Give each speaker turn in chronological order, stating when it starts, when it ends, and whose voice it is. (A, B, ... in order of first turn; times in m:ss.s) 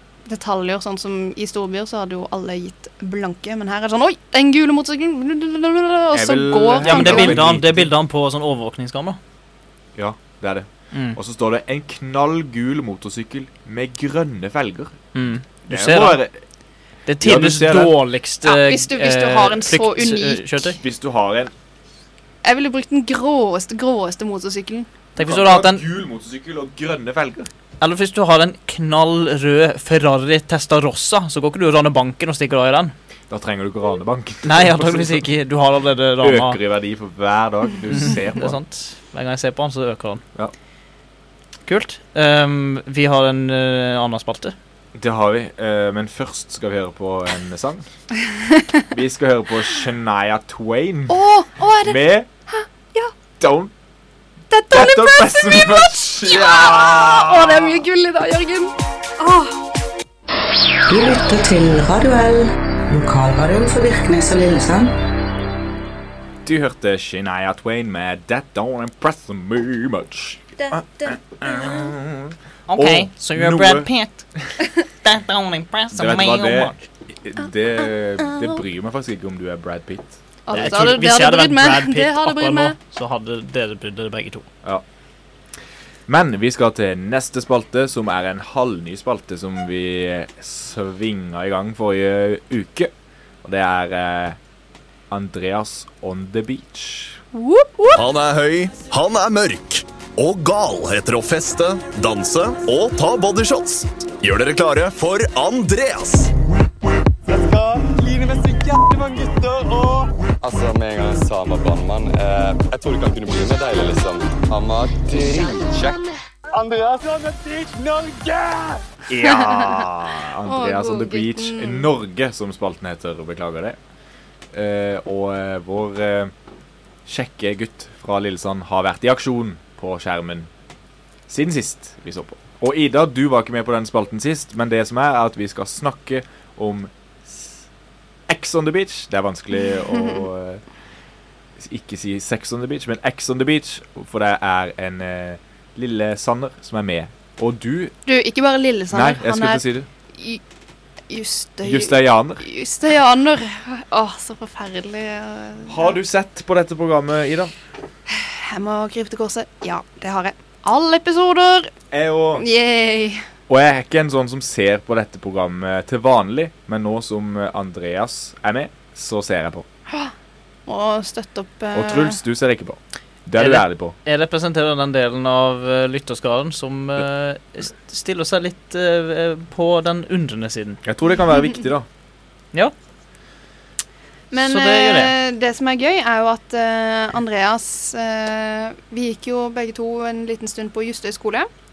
0:00.3-0:07.4 A
0:06.1-0:07.9 B
0:06.8-0:09.2 C
0:10.0-0:15.0 B
0:10.9-0:11.2 C
0:15.1-0:16.2 C
0:15.7-0:16.4 B
0:17.1-0:20.8 C
0:17.2-0:18.0 B
0:18.4-0:20.6 A
0:20.8-0:21.5 B
0:22.4-0:24.9 A
0:25.2-0:25.8 C
0:25.2-0:27.5 B
0:27.8-0:33.0 C
0:33.3-0:35.3 B
0:34.4-0:36.6 C
0:36.2-0:38.6 B
0:37.9-0:40.2 C
0:41.7-0:44.6 C
0:45.0-0:47.8 B
0:48.9-0:51.2 B
0:51.1-0:53.1 A
0:51.8-0:52.3 B
0:53.4-0:53.7 B
0:54.5-0:59.6 A
0:54.7-0:57.8 B
1:00.9-1:04.9 D
1:06.4-1:14.5 B
1:12.7-1:14.3 C
1:15.0-1:16.8 C
1:15.9-1:20.8 B
1:20.5-1:22.8 A
1:20.5-1:24.5 C
1:26.1-1:32.9 B
1:33.4-1:34.4 B
1:35.1-1:37.2 B
1:37.3-1:38.0 A
1:38.0-1:46.3 E
1:47.3-1:58.8 F
1:59.1-2:03.8 B
1:59.2-1:59.9 A
2:00.4-2:01.9 A
2:04.5-2:06.3 B
2:07.1-2:10.5 B
2:11.3-2:17.6 B
2:18.3-2:20.6 B
2:19.7-2:20.3 A
2:21.6-2:27.9 B
2:28.1-2:29.6 A
2:28.9-2:29.9 B
2:30.1-2:30.4 A
2:31.1-2:36.0 A
2:31.6-2:32.4 B
2:35.7-2:37.5 B
2:38.1-2:41.7 A
2:41.9-2:42.5 B
2:42.4-2:43.2 A
2:43.5-2:49.7 B
2:50.7-2:52.2 A
2:51.7-2:54.0 B
2:53.4-3:00.8 C
3:00.8-3:01.9 B
3:04.3-3:11.5 A
3:04.3-3:05.1 C